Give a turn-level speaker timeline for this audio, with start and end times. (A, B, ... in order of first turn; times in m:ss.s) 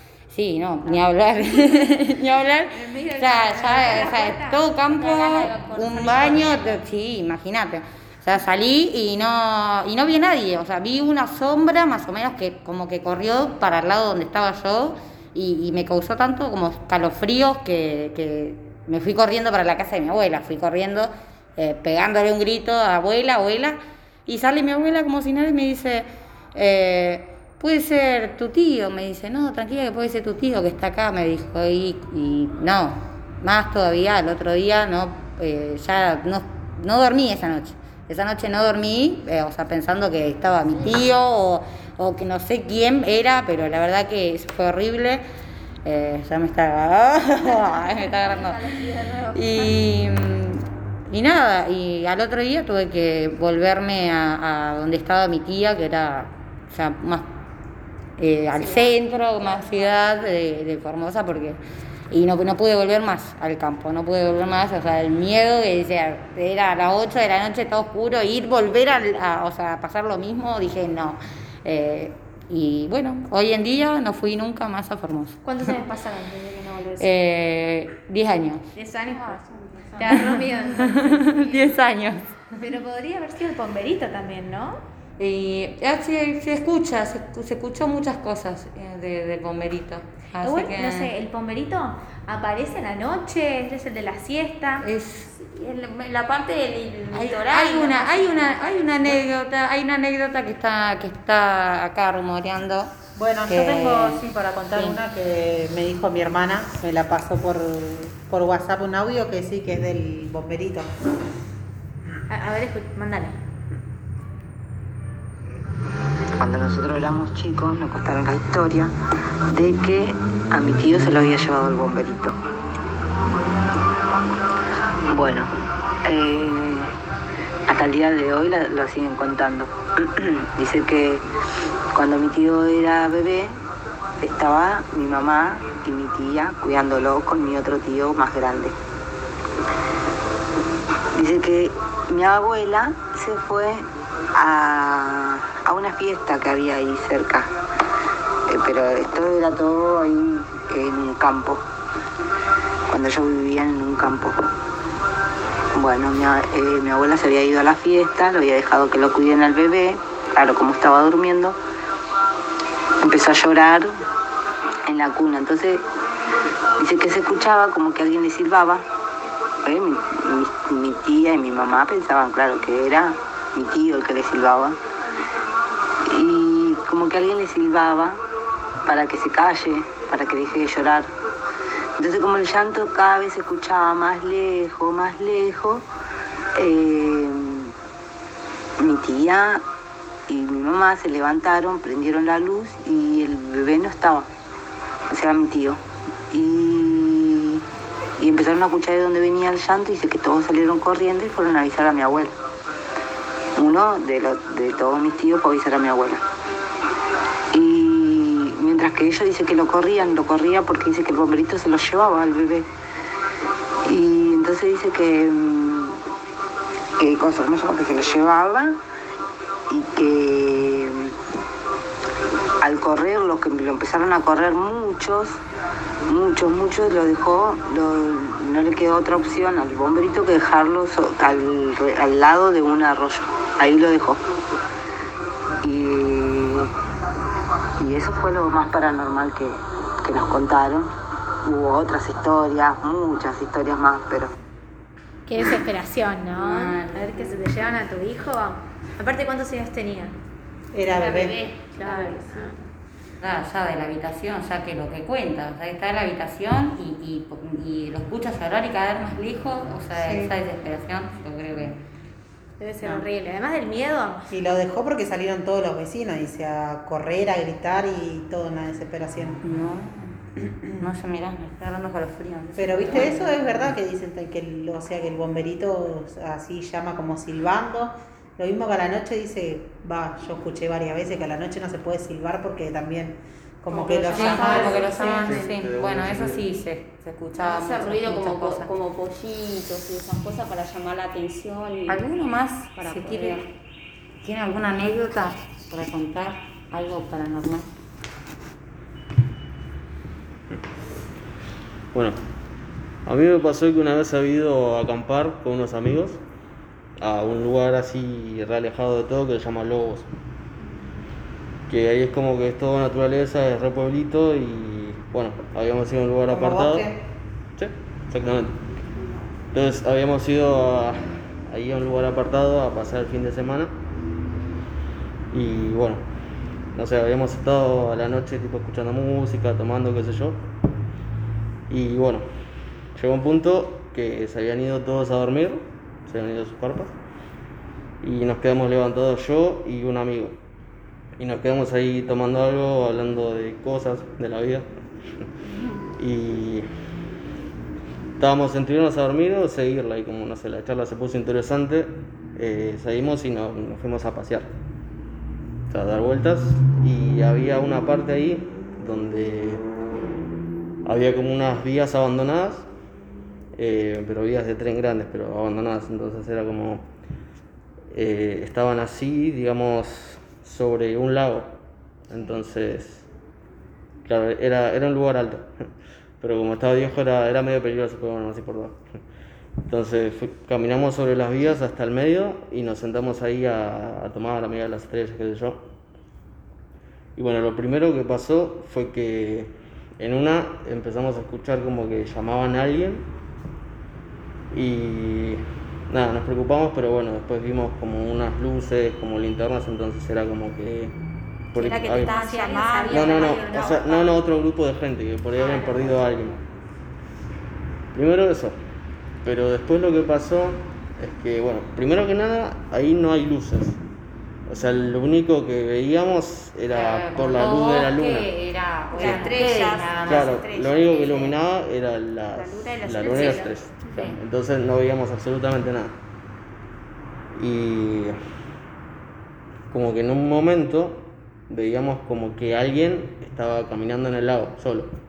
0:00.3-0:45.2 A
0:02.7-0:04.8 B
0:04.9-0:06.8 C
0:45.8-0:48.7 A
0:47.5-0:49.7 C
0:49.3-0:57.3 A
0:58.2-1:15.4 A
0:58.6-0:58.9 C
1:15.4-1:17.1 B
1:17.0-1:18.6 A
1:18.8-1:21.8 B
1:20.1-1:22.3 A
1:22.6-1:24.8 B
1:25.2-1:31.1 A
1:30.4-1:34.9 B
1:34.8-1:35.3 A
1:35.2-1:39.3 C
1:37.1-1:42.9 A
1:43.2-1:50.9 D
1:43.5-1:45.0 A
1:52.3-1:53.4 B
1:56.4-1:58.9 E
1:59.5-2:02.4 E
2:05.1-2:05.5 E
2:06.0-2:06.9 E
2:07.7-2:11.2 E
2:11.9-2:13.5 E
2:14.2-2:18.8 E
2:21.2-2:27.5 E
2:28.5-2:31.6 E
2:32.9-2:34.5 E
2:35.8-2:41.6 E
2:43.0-2:44.0 E
2:44.8-2:45.8 E
2:46.8-2:48.9 E
2:49.6-2:54.8 E
2:56.0-2:58.2 E
2:58.8-3:01.1 E
3:02.0-3:05.9 E
3:06.6-3:07.7 E
3:08.8-3:09.6 E
3:10.3-3:14.3 E
3:15.1-3:17.6 E
3:18.2-3:22.4 E
3:23.6-3:26.2 E
3:27.5-3:32.7 E
3:33.8-3:36.0 E
3:37.0-3:38.8 E
3:39.7-3:41.2 E
3:42.6-3:45.4 E
3:46.1-3:54.2 E
3:55.6-3:56.7 E
3:57.8-4:00.9 E
4:01.4-4:04.3 E
4:05.2-4:10.2 B
4:06.4-4:07.3 A
4:10.7-4:11.5 D
4:11.0-4:11.4 C
4:11.7-4:12.6 B
4:11.8-4:12.2 A
4:13.2-4:21.8 A
4:20.0-4:20.3 D
4:22.6-4:24.3 B
4:24.3-4:29.4 D
4:29.4-4:30.2 A
4:30.8-4:33.7 A
4:32.6-4:45.4 D
4:43.8-4:48.7 A
4:44.1-4:44.8 C
4:45.1-4:46.5 F
4:47.4-4:52.0 C
4:51.9-4:53.5 A
4:52.8-4:53.5 C
4:54.2-4:57.7 A
5:03.1-5:06.2 F
5:07.0-5:10.1 F
5:11.7-5:16.9 F
5:16.3-5:17.0 D
5:17.6-5:18.6 F
5:19.5-5:21.0 F
5:21.5-5:23.7 F
5:25.3-5:26.0 F
5:26.8-5:30.4 F
5:31.7-5:32.2 F
5:33.0-5:37.0 F
5:38.0-5:40.4 F
5:41.2-5:44.7 F
5:46.0-5:46.6 F
5:48.2-5:54.6 F
5:55.7-5:59.6 F
6:00.8-6:02.7 F
6:03.6-6:06.9 F
6:07.9-6:11.6 F
6:12.1-6:13.1 F
6:14.1-6:15.5 F
6:16.2-6:18.8 F
6:19.7-6:25.6 F
6:27.2-6:33.1 F
6:34.5-6:41.0 F
6:41.5-6:42.2 F
6:41.5-6:43.9 C
6:42.0-6:44.2 B
6:42.9-6:46.4 F
6:45.4-6:45.6 C
6:45.4-6:46.3 B
6:47.9-6:48.6 F
6:49.2-6:53.8 F
6:54.5-6:58.3 F
6:56.7-7:00.4 A
6:58.9-6:59.4 F
6:58.9-7:01.4 C
7:00.0-7:05.9 F
7:02.3-7:03.6 C
7:03.9-7:04.2 A
7:07.4-7:08.1 F
7:09.7-7:14.9 F